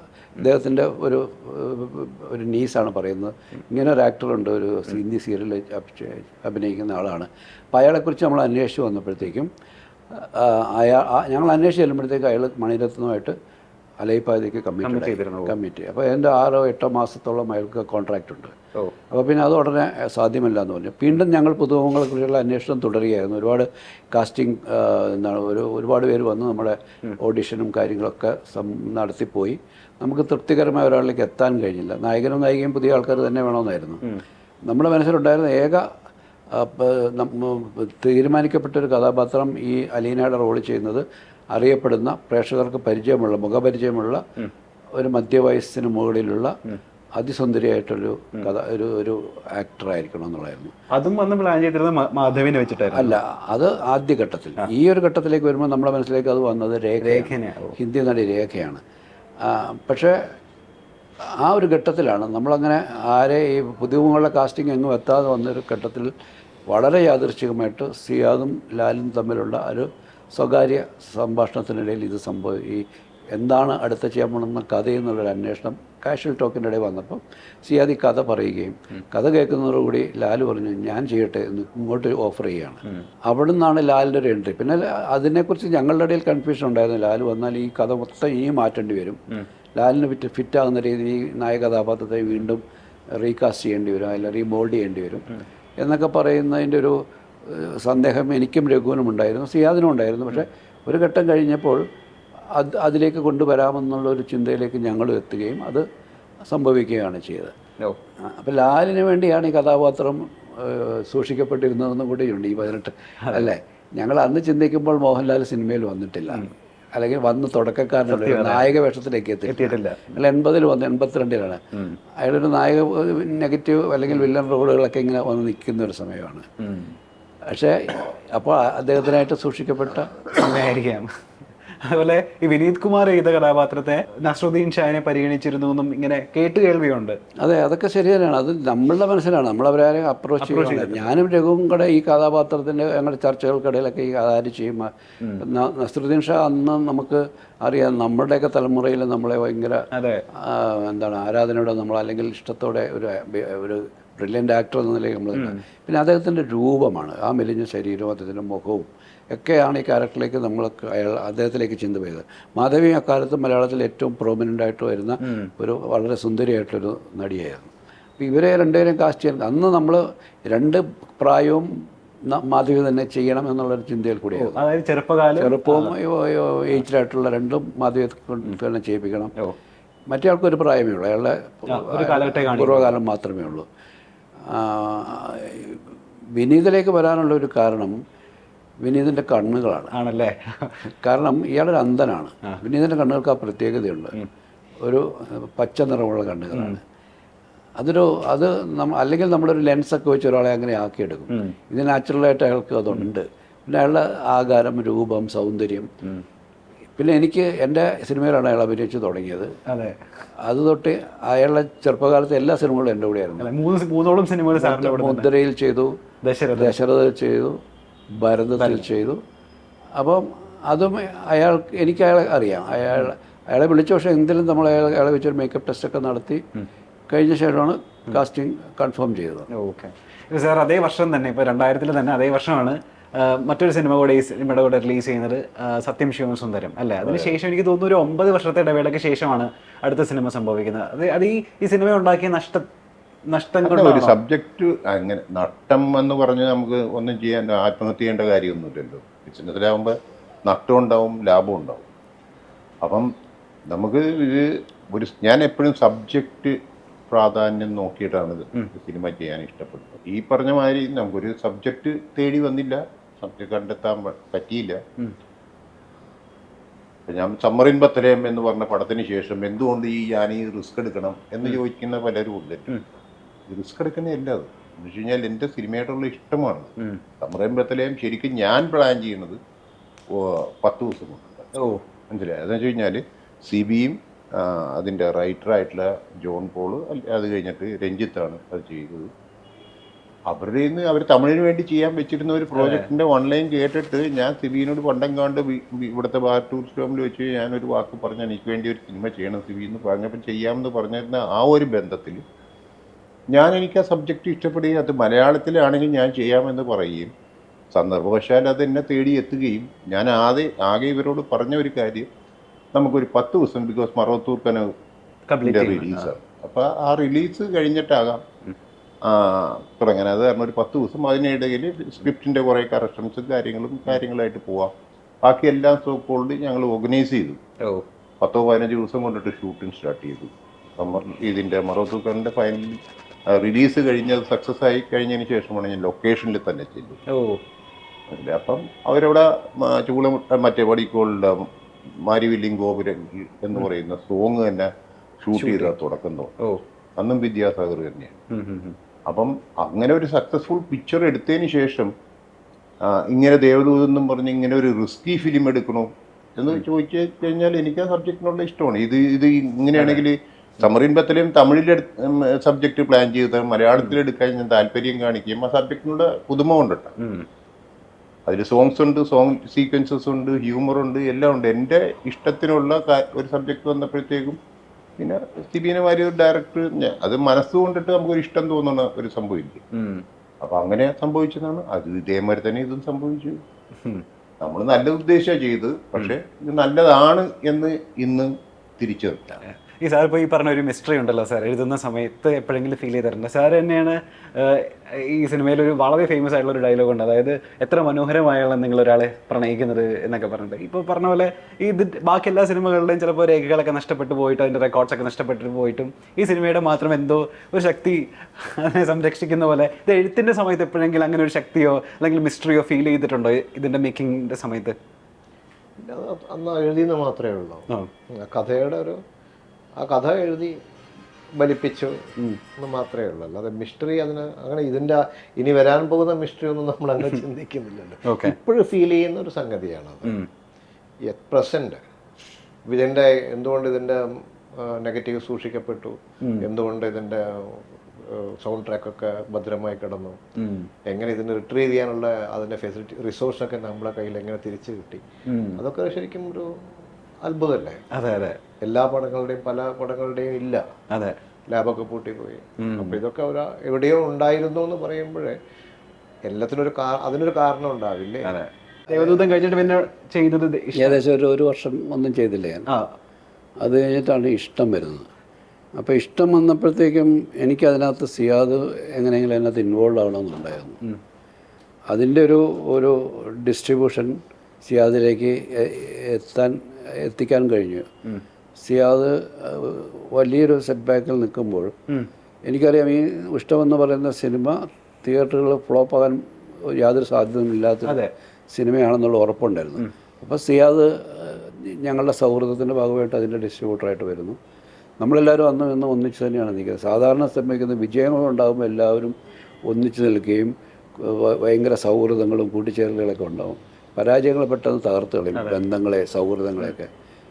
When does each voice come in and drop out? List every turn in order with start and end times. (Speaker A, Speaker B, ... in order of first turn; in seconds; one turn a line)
Speaker A: 0.3-9.5
Speaker A: 10.1-13.3
Speaker A: 14.0-18.5
Speaker B: 14.8-15.5
Speaker A: 19.1-34.0
Speaker A: 34.7-35.9
Speaker A: 36.5-44.2
Speaker A: 45.0-46.5
Speaker A: 47.1-50.7
Speaker B: 50.9-53.2
Speaker A: 52.9-58.8
Speaker B: 57.0-57.8
Speaker A: 59.4-60.4
Speaker A: 61.4-66.1
Speaker A: 66.7-89.2
Speaker A: 89.8-92.6
Speaker A: 93.2-95.3
Speaker A: 95.8-101.8
Speaker A: 102.5-105.8
Speaker A: 106.4-107.5
Speaker A: 108.2-121.6
Speaker B: 118.1-118.7
Speaker B: 119.5-120.0
Speaker A: 122.2-126.5
Speaker B: 126.6-126.9
Speaker A: 127.5-130.3
Speaker B: 130.3-131.1
Speaker B: 131.8-137.2
Speaker A: 137.4-171.7
Speaker B: 140.4-141.1
Speaker B: 149.9-150.2
Speaker B: 165.2-165.5
Speaker A: 172.3-174.6
Speaker B: 174.3-175.9
Speaker A: 175.4-179.3
Speaker A: 180.1-183.7
Speaker B: 181.7-182.9
Speaker A: 184.5-185.8
Speaker A: 186.3-188.0
Speaker A: 188.8-189.9
Speaker B: 189.9-190.8
Speaker A: 191.0-194.2
Speaker A: 194.8-196.8
Speaker A: 197.8-205.9
Speaker A: 207.0-209.5
Speaker B: 209.7-210.0
Speaker A: 210.4-213.5
Speaker B: 213.4-215.3
Speaker A: 214.6-216.0
Speaker B: 216.2-216.8
Speaker A: 216.6-217.6
Speaker A: 218.1-219.2
Speaker B: 218.6-218.9
Speaker A: 220.0-226.4
Speaker A: 227.1-229.5
Speaker B: 229.5-242.7
Speaker C: 237.0-237.3
Speaker B: 243.3-244.2
Speaker C: 243.6-249.9
Speaker C: 250.5-251.9
Speaker C: 252.8-253.1
Speaker C: 253.7-256.6
Speaker C: 257.1-264.8
Speaker C: 267.1-272.7
Speaker C: 273.5-279.4
Speaker C: 280.1-281.5
Speaker B: 281.5-281.8
Speaker C: 282.1-289.1
Speaker C: 290.3-302.2
Speaker B: 292.5-292.9
Speaker C: 303.3-307.1
Speaker C: 307.7-312.1
Speaker C: 312.7-314.7
Speaker B: 315.3-316.1
Speaker C: 315.4-318.2
Speaker C: 319.0-324.7
Speaker C: 325.2-327.4
Speaker B: 327.6-327.9
Speaker C: 328.2-337.0
Speaker B: 337.1-337.4
Speaker C: 338.1-341.5
Speaker C: 342.0-346.3
Speaker B: 345.3-345.7
Speaker C: 347.0-348.2
Speaker B: 348.3-348.8
Speaker C: 349.1-351.9
Speaker C: 352.8-366.9
Speaker B: 359.8-360.0
Speaker B: 367.0-367.3
Speaker C: 368.3-374.4
Speaker C: 375.0-379.6
Speaker B: 379.7-380.0
Speaker C: 380.4-383.4
Speaker B: 383.8-384.0
Speaker C: 384.4-389.4
Speaker B: 389.5-414.8
Speaker D: 415.8-417.6
Speaker D: 418.2-419.0
Speaker D: 419.8-420.6
Speaker D: 421.4-422.0
Speaker D: 422.6-430.1
Speaker B: 428.0-428.4
Speaker D: 431.1-431.8
Speaker D: 432.7-440.2
Speaker B: 440.4-440.7
Speaker D: 440.9-445.0
Speaker B: 445.3-445.6
Speaker D: 445.6-446.5
Speaker D: 447.2-447.8
Speaker B: 447.9-448.4
Speaker D: 448.6-450.6
Speaker B: 450.9-451.2
Speaker D: 451.5-455.4
Speaker B: 452.6-453.0
Speaker D: 456.3-458.3
Speaker B: 458.2-461.0
Speaker D: 458.9-459.4
Speaker A: 460.8-462.7
Speaker A: 463.6-465.1
Speaker A: 465.8-470.8
Speaker A: 471.9-477.9
Speaker A: 478.6-481.7
Speaker A: 482.5-488.0
Speaker B: 487.9-488.1
Speaker A: 488.5-494.4
Speaker A: 495.0-499.1
Speaker A: 499.7-506.9
Speaker B: 505.3-505.6